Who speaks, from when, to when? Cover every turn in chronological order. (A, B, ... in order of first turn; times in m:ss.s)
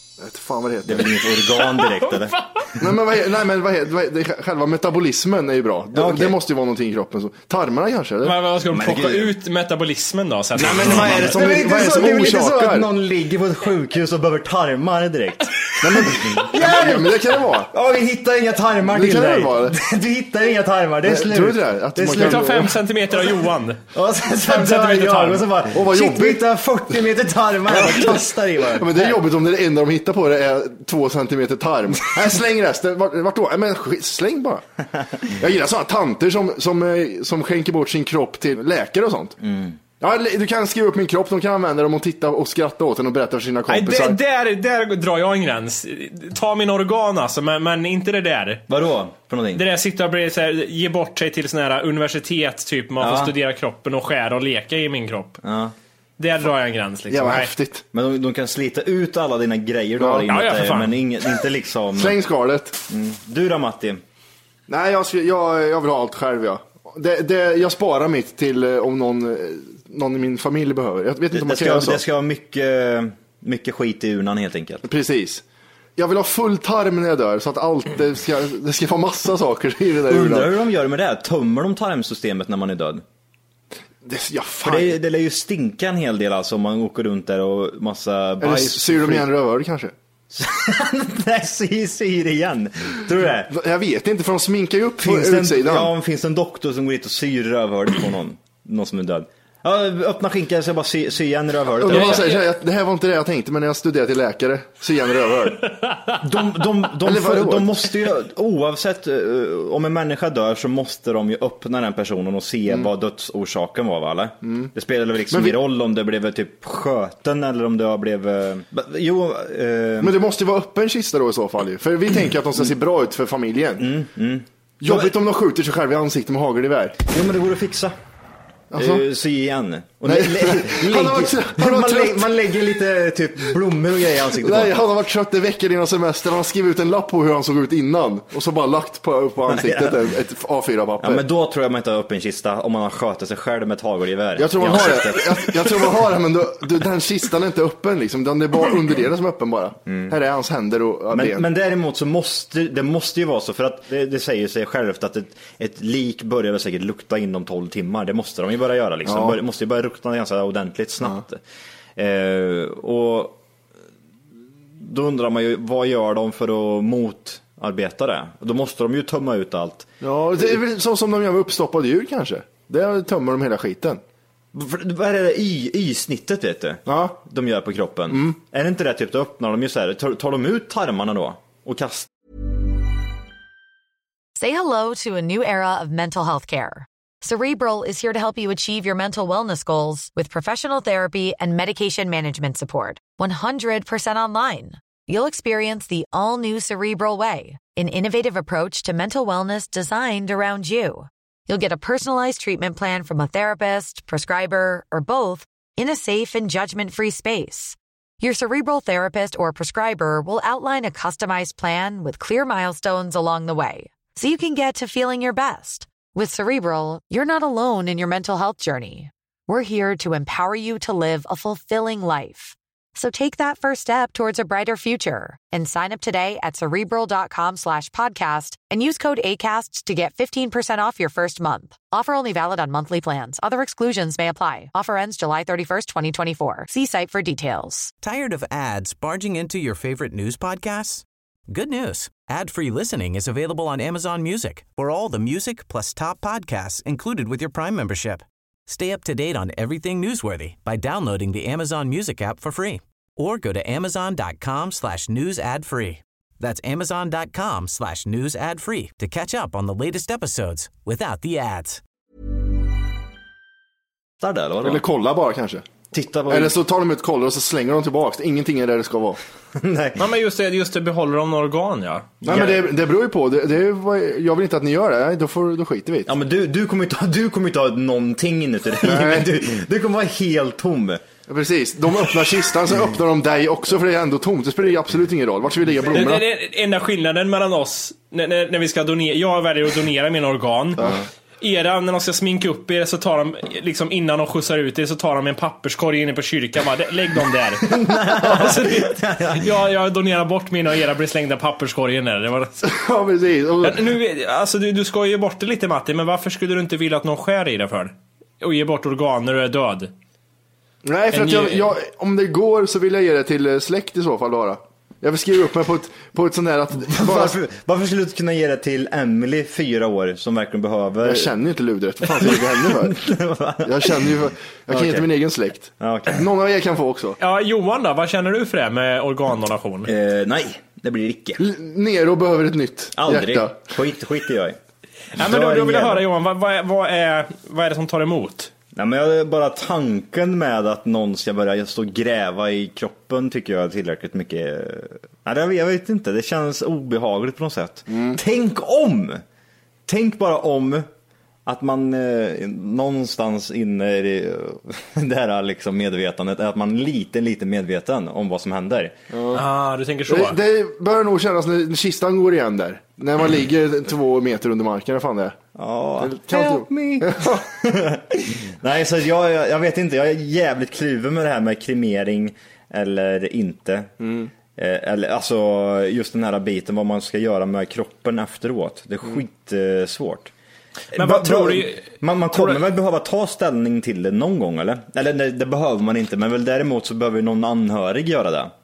0:00.2-0:01.2 A
0:00.8-0:02.5 B
0:01.8-0:02.6 C
0:02.8-0:08.4 A
0:05.9-0:06.4 B
0:08.2-0:11.4 C
0:08.7-0:09.3 B
0:10.6-0:12.9 A
0:10.6-0:22.6 B
0:15.8-0:17.7 A
0:18.9-0:19.8 A
0:21.0-0:22.8 A
0:22.1-0:23.8 C
0:23.9-0:29.2 B
0:24.4-0:25.5 C
0:25.7-0:26.5 A
0:27.7-0:34.6 A
0:35.2-0:39.4 A
0:39.4-0:39.8 B
0:40.0-0:44.2 A
0:43.7-0:48.6 C
0:48.7-0:49.6 B
0:49.5-0:55.4 C
0:53.0-0:53.3 B
0:55.4-0:55.8 B
0:56.2-0:57.5 C
0:57.1-0:57.8 A
0:57.9-1:02.2 B
1:00.0-1:00.3 A
1:00.3-1:01.0 C
1:01.9-1:02.8 A
1:02.9-1:04.0 B
1:04.7-1:12.0 A
1:11.3-1:14.8 B
1:14.8-1:15.4 A
1:16.0-1:20.5 A
1:20.1-1:23.0 B
1:24.0-1:25.0 A
1:24.6-1:29.3 B
1:28.4-1:29.9 A
1:30.3-1:33.5 B
1:33.5-1:35.9 A
1:35.0-1:42.3 B
1:41.8-1:45.8 A
1:41.9-1:42.4 C
1:46.2-2:00.2 B
1:47.0-1:47.9 A
1:54.4-1:54.7 A
1:55.3-1:55.6 A
2:00.0-2:03.9 A
2:03.8-2:05.2 B
2:04.8-2:07.0 A
2:07.1-2:08.0 B
2:08.7-2:09.0 A
2:08.7-2:14.8 B
2:10.1-2:12.3 A
2:14.4-2:21.2 A
2:19.5-2:20.1 B
2:21.0-2:26.1 B
2:24.4-2:31.4 A
2:29.9-2:30.2 B
2:31.1-2:41.4 B
2:39.1-2:39.4 A
2:42.0-2:43.4 B
2:44.8-2:49.9 B
2:50.0-2:54.0 A
2:54.5-3:02.1 B
2:56.9-2:57.2 A
2:58.1-2:58.4 A
3:04.4-3:57.9 D
3:58.0-4:21.8 E
4:24.2-4:24.8 B
4:24.6-4:25.7 A
4:25.9-4:26.6 B
4:26.3-4:29.2 A
4:29.6-4:30.0 B
4:30.0-4:32.1 C
4:32.2-4:36.1 A
4:32.2-4:32.7 B
4:36.1-4:41.0 B
4:38.8-4:39.3 A
4:41.3-4:46.2 A
4:45.9-4:50.8 C
4:51.4-5:02.6 C
4:57.6-4:59.6 B
5:02.6-5:03.9 A
5:03.6-5:09.9 C
5:10.8-5:17.4 A
5:11.1-5:11.7 C
5:16.8-5:21.3 B
5:21.0-5:23.0 A
5:22.0-5:25.1 B
5:23.6-5:27.2 A
5:25.8-5:26.2 B
5:27.2-5:29.9 C
5:29.9-5:31.4 B
5:31.4-5:33.6 A
5:33.0-5:34.6 B
5:35.2-5:36.1 B
5:35.2-5:38.5 C
5:38.8-5:49.2 B
5:47.9-5:48.2 A
5:49.9-5:50.9 B
5:51.5-5:59.0 B
5:59.1-5:59.4 A
5:59.3-6:00.4 C
6:00.1-6:05.4 A
6:05.6-6:13.9 B
6:06.0-6:07.4 A
6:14.0-6:14.3 A
6:14.6-6:20.3 B
6:20.9-6:22.6 C
6:20.9-6:28.5 B